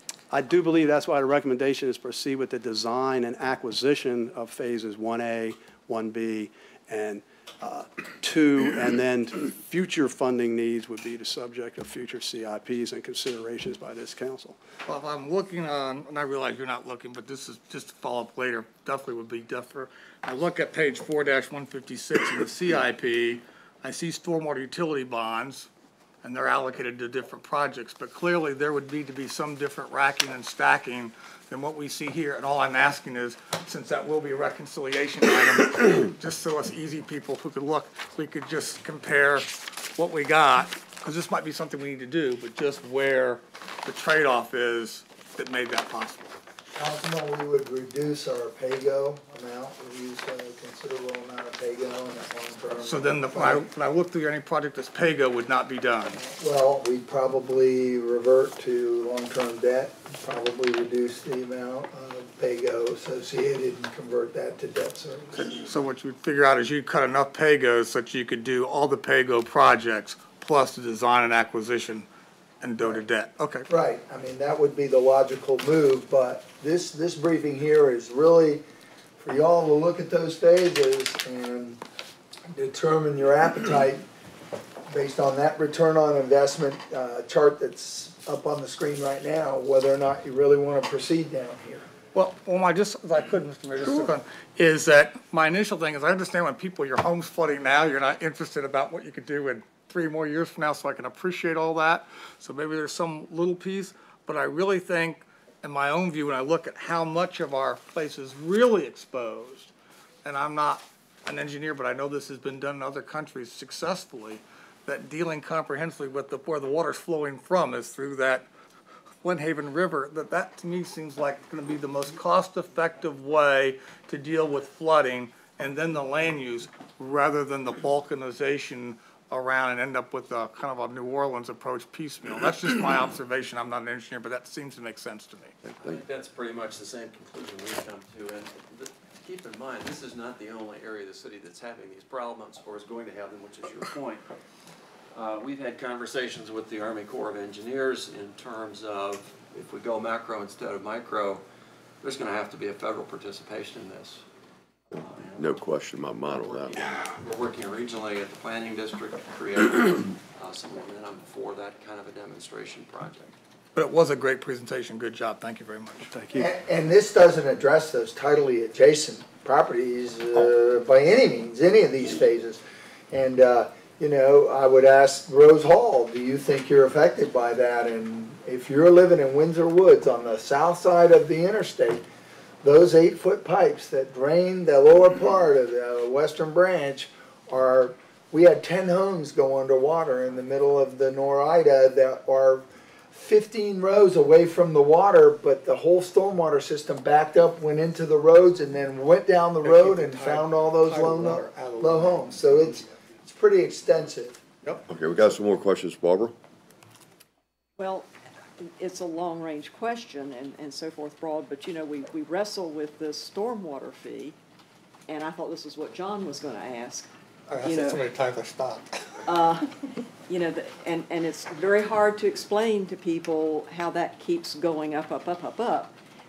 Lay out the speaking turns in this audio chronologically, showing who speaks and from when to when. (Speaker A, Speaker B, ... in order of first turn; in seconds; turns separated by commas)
Speaker A: 0.3-14.6, Speaker B: 14.9-25.7, Speaker B: 26.2-46.4, Speaker C: 46.8-53.6, Speaker B: 52.8-56.2, Speaker C: 56.2-65.6, Speaker B: 65.3-72.1, Speaker B: 72.6-73.7, Speaker C: 73.7-78.6, Speaker C: 79.2-81.8, Speaker C: 82.5-84.0, Speaker C: 84.9-91.9, Speaker B: 92.2-109.7, Speaker B: 110.2-118.5, Speaker B: 119.2-135.6, Speaker D: 135.8-144.2, Speaker D: 145.1-151.4, Speaker D: 152.0-154.2, Speaker D: 155.0-155.5, Speaker E: 155.4-156.8, Speaker D: 156.2-163.3, Speaker B: 163.8-166.1, Speaker A: 166.1-166.5, Speaker C: 166.3-182.0, Speaker C: 182.6-204.4, Speaker A: 199.9-202.0, Speaker E: 204.9-206.3, Speaker F: 207.8-208.1, Speaker F: 208.6-214.4, Speaker F: 215.1-217.1, Speaker B: 217.5-219.2, Speaker F: 217.6-218.1, Speaker F: 219.3-225.9